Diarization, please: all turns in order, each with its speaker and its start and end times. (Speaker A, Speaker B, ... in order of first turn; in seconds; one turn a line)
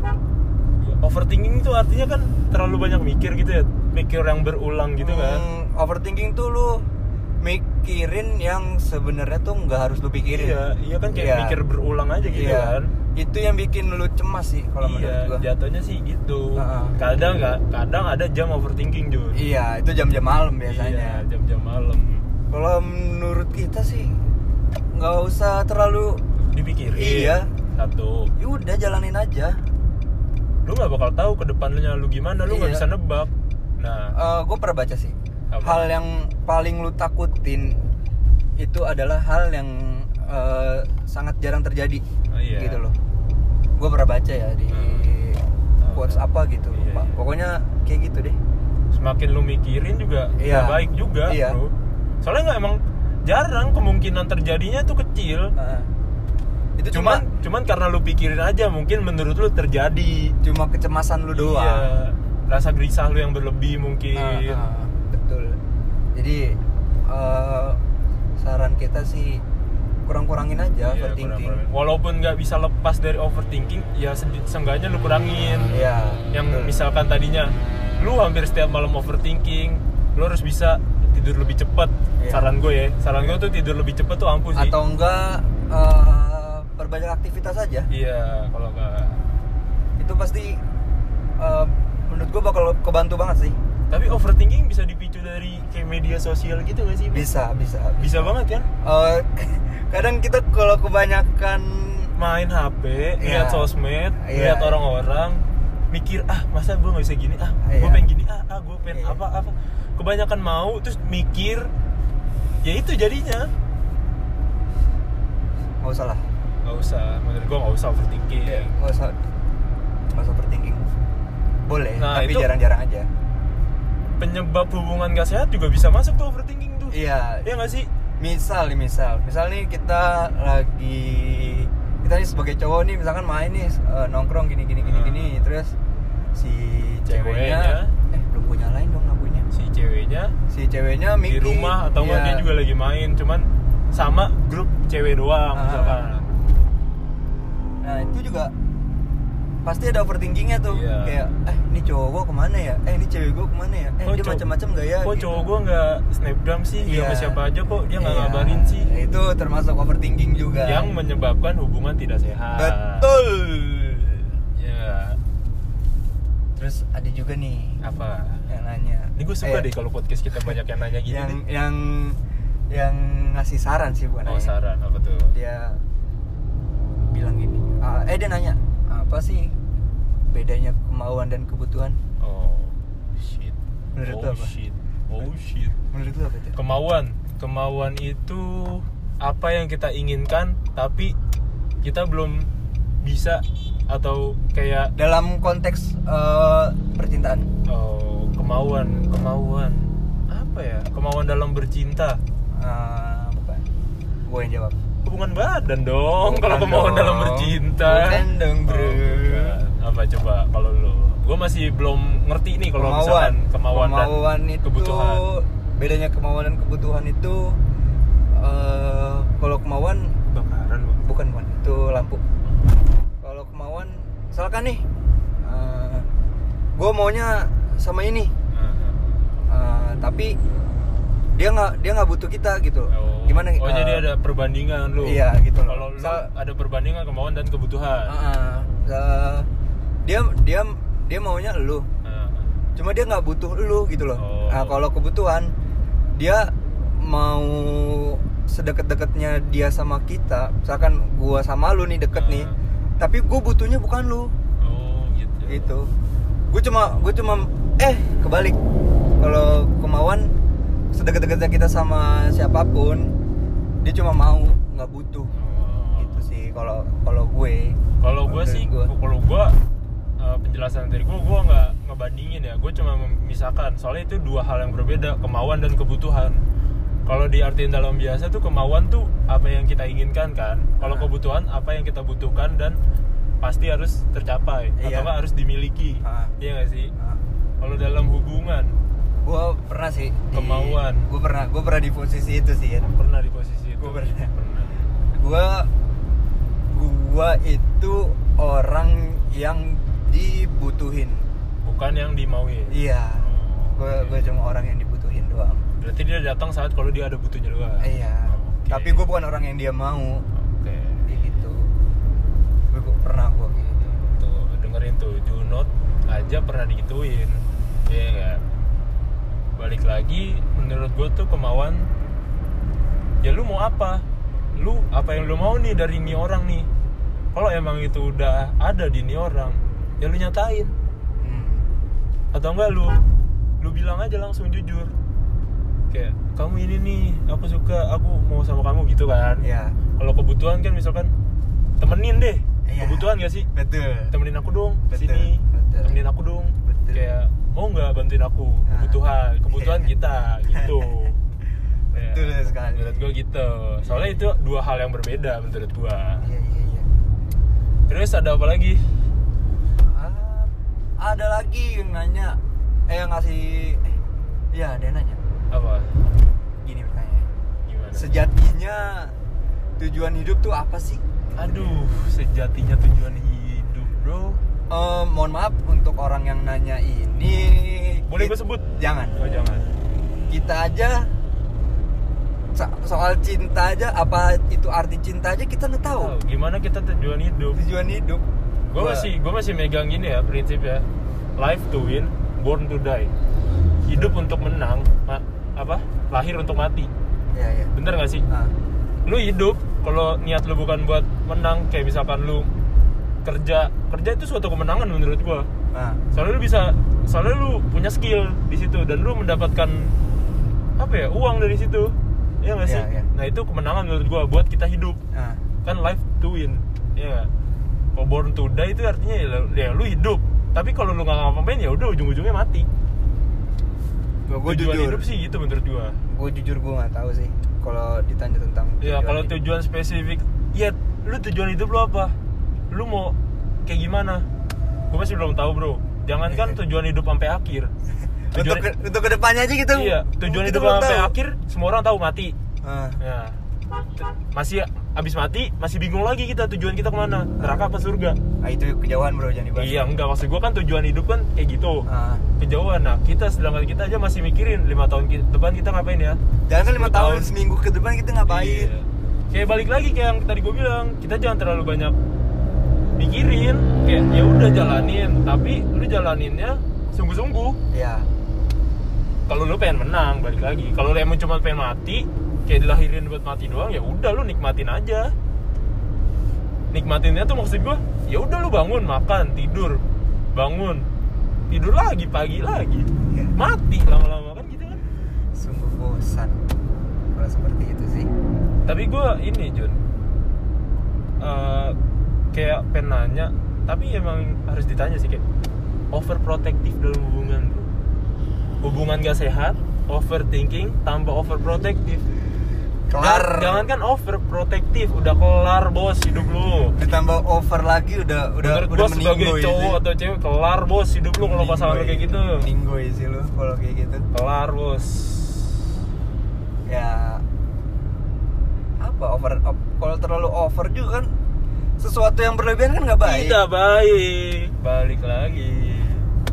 Speaker A: 0.8-5.5
Speaker B: 5.0-6.9
Speaker B: 7.4-10.6
Speaker A: 10.3-12.9
Speaker B: 11.1-11.6
Speaker B: 12.2-15.5
Speaker A: 14.8-19.4
Speaker B: 16.6-17.0
Speaker B: 19.4-21.2
Speaker A: 20.6-22.3
Speaker B: 22.5-24.3
Speaker B: 24.9-26.2
Speaker A: 26.5-28.3
Speaker B: 26.9-27.5
Speaker B: 28.4-29.6
Speaker A: 30.6-34.1
Speaker B: 32.5-32.9
Speaker B: 34.1-37.8
Speaker A: 35.5-35.9
Speaker B: 38.6-43.0
Speaker A: 42.3-42.9
Speaker B: 43.8-48.4
Speaker A: 44.7-45.1
Speaker A: 45.8-47.1
Speaker A: 48.9-55.5
Speaker B: 50.4-51.6
Speaker B: 55.6-55.9
Speaker B: 56.8-57.2
Speaker A: 56.9-60.4
Speaker B: 60.4-61.9
Speaker A: 61.3-64.7
Speaker B: 64.2-65.6
Speaker B: 66.2-67.8
Speaker B: 68.4-69.4
Speaker B: 70.1-71.6
Speaker A: 70.8-75.8
Speaker B: 75.7-76.8
Speaker A: 76.3-84.8
Speaker B: 82.2-82.5
Speaker B: 84.5-87.9
Speaker A: 87.9-89.2
Speaker B: 90.0-90.6
Speaker B: 91.4-93.6
Speaker A: 93.9-97.3
Speaker B: 97.1-102.1
Speaker A: 98.0-98.7
Speaker A: 102.2-111.7
Speaker B: 103.2-104.8
Speaker B: 107.6-108.1
Speaker B: 108.9-109.2
Speaker A: 112.6-113.5
Speaker B: 115.8-116.2
Speaker A: 116.7-118.7
Speaker B: 118.4-119.2
Speaker B: 120.1-120.8
Speaker B: 121.7-123.1
Speaker A: 122.0-122.5
Speaker A: 124.2-127.9
Speaker B: 126.9-127.5
Speaker B: 128.2-135.8
Speaker A: 134.8-135.3
Speaker B: 136.3-139.5
Speaker A: 137.1-137.9
Speaker A: 139.5-140.3
Speaker B: 140.5-142.5
Speaker A: 141.2-146.3
Speaker B: 145.5-146.0
Speaker B: 147.8-148.5
Speaker B: 149.6-155.5
Speaker A: 150.7-151.2
Speaker A: 154.0-154.4
Speaker A: 155.0-158.9
Speaker B: 156.8-157.4
Speaker B: 157.9-160.9
Speaker A: 160.7-163.1
Speaker B: 162.6-164.3
Speaker A: 164.6-165.2
Speaker B: 166.6-167.8
Speaker A: 167.8-168.5
Speaker B: 168.5-169.7
Speaker A: 169.2-171.4
Speaker B: 171.1-172.2
Speaker B: 172.7-174.5
Speaker A: 174.2-175.3
Speaker B: 175.3-175.8
Speaker B: 177.1-179.5
Speaker B: 180.3-182.0
Speaker A: 182.2-185.8
Speaker B: 184.0-184.5
Speaker B: 185.9-186.6
Speaker A: 186.6-191.2
Speaker A: 191.8-192.5
Speaker A: 193.0-194.9
Speaker B: 195.0-197.5
Speaker A: 197.7-202.2
Speaker B: 202.5-203.7
Speaker B: 204.3-204.8
Speaker A: 205.1-215.2
Speaker B: 206.2-209.6
Speaker B: 212.8-217.6
Speaker B: 218.3-220.2
Speaker A: 220.3-221.0
Speaker B: 221.0-222.2
Speaker B: 223.2-224.8
Speaker B: 225.4-226.1
Speaker B: 226.8-228.3
Speaker A: 228.5-229.2
Speaker B: 229.5-230.4
Speaker B: 231.3-234.1
Speaker A: 232.9-238.2
Speaker B: 235.0-236.3
Speaker B: 238.1-239.5
Speaker B: 240.0-241.9
Speaker A: 242.1-242.5
Speaker B: 242.8-245.5
Speaker A: 244.2-244.8
Speaker B: 246.2-254.3
Speaker A: 252.2-252.6
Speaker A: 254.6-255.7
Speaker B: 255.5-255.9
Speaker B: 256.5-258.6
Speaker B: 259.2-260.3
Speaker B: 260.9-263.2
Speaker B: 263.8-265.3
Speaker A: 265.4-266.3
Speaker B: 266.0-268.9
Speaker A: 268.0-269.6
Speaker A: 270.2-276.4
Speaker A: 277.1-282.8
Speaker B: 280.8-281.1
Speaker A: 283.4-286.9
Speaker B: 284.8-285.1
Speaker B: 286.0-286.3
Speaker B: 287.0-287.2
Speaker A: 287.6-288.8
Speaker B: 289.2-292.9
Speaker A: 290.3-291.1
Speaker A: 292.9-294.8
Speaker B: 293.8-294.3
Speaker B: 295.1-295.7
Speaker B: 296.7-301.3
Speaker A: 301.6-304.2
Speaker B: 302.7-305.7
Speaker A: 305.8-309.0
Speaker B: 307.8-310.2
Speaker A: 310.4-311.4
Speaker B: 311.1-311.7
Speaker B: 312.7-313.9
Speaker A: 313.9-318.4
Speaker A: 319.6-321.9
Speaker A: 323.2-324.0
Speaker A: 324.6-326.7
Speaker A: 327.3-330.7
Speaker B: 331.2-331.7
Speaker A: 332.3-333.0
Speaker A: 333.6-334.9
Speaker A: 335.9-339.5
Speaker B: 339.4-339.8
Speaker A: 340.0-341.1
Speaker A: 341.8-343.5
Speaker B: 342.7-344.1
Speaker A: 344.1-351.2
Speaker B: 344.9-346.0
Speaker B: 346.6-347.1
Speaker B: 348.7-349.9
Speaker B: 350.5-350.9
Speaker B: 351.9-353.1
Speaker A: 351.9-356.3
Speaker B: 353.8-354.2
Speaker B: 356.2-356.9
Speaker A: 357.9-358.8
Speaker B: 359.8-362.4
Speaker B: 362.9-364.0
Speaker B: 364.5-365.2
Speaker A: 365.5-365.9
Speaker B: 366.6-367.3
Speaker A: 367.7-368.2
Speaker B: 367.9-369.1
Speaker B: 369.8-371.9
Speaker A: 371.4-374.4
Speaker B: 374.7-379.2
Speaker A: 378.1-379.7
Speaker B: 380.3-381.1
Speaker B: 382.6-386.1
Speaker A: 385.9-387.6
Speaker B: 387.5-388.2
Speaker A: 388.7-390.9
Speaker B: 388.8-389.1
Speaker A: 391.4-393.1
Speaker A: 393.9-396.9
Speaker B: 397.3-397.7
Speaker A: 397.7-398.2
Speaker A: 399.1-402.5
Speaker A: 403.2-405.5
Speaker B: 405.7-406.0
Speaker A: 406.1-409.9
Speaker A: 410.8-415.0
Speaker B: 412.6-413.1
Speaker B: 415.1-415.4
Speaker A: 415.6-417.3
Speaker A: 417.9-422.7
Speaker B: 424.3-425.1
Speaker A: 424.4-426.0
Speaker B: 426.1-429.3
Speaker A: 428.8-432.2
Speaker A: 432.7-434.3
Speaker A: 434.9-437.7
Speaker B: 436.3-436.6
Speaker B: 438.3-441.1
Speaker A: 438.4-438.6
Speaker A: 439.7-442.4
Speaker B: 442.6-443.0
Speaker A: 443.0-443.4
Speaker A: 443.9-448.2
Speaker B: 447.3-447.7
Speaker B: 448.4-449.9
Speaker A: 449.6-451.9
Speaker B: 451.9-452.2
Speaker A: 452.4-457.3
Speaker B: 456.5-458.7
Speaker A: 458.3-462.0
Speaker A: 463.0-467.6
Speaker B: 467.7-468.1
Speaker A: 469.3-475.1
Speaker A: 476.7-479.8
Speaker A: 480.4-480.9
Speaker A: 481.5-484.8
Speaker B: 485.4-486.5
Speaker B: 487.1-488.1
Speaker A: 488.7-489.8
Speaker A: 491.2-491.8
Speaker A: 492.3-495.2
Speaker A: 495.9-497.7
Speaker A: 498.6-502.1
Speaker B: 502.9-503.7
Speaker A: 502.9-506.8
Speaker B: 506.7-509.8
Speaker A: 508.4-512.5
Speaker B: 511.1-514.1
Speaker A: 514.1-515.6
Speaker B: 516.7-517.2
Speaker B: 518.8-521.1
Speaker B: 521.8-523.4
Speaker A: 523.0-526.1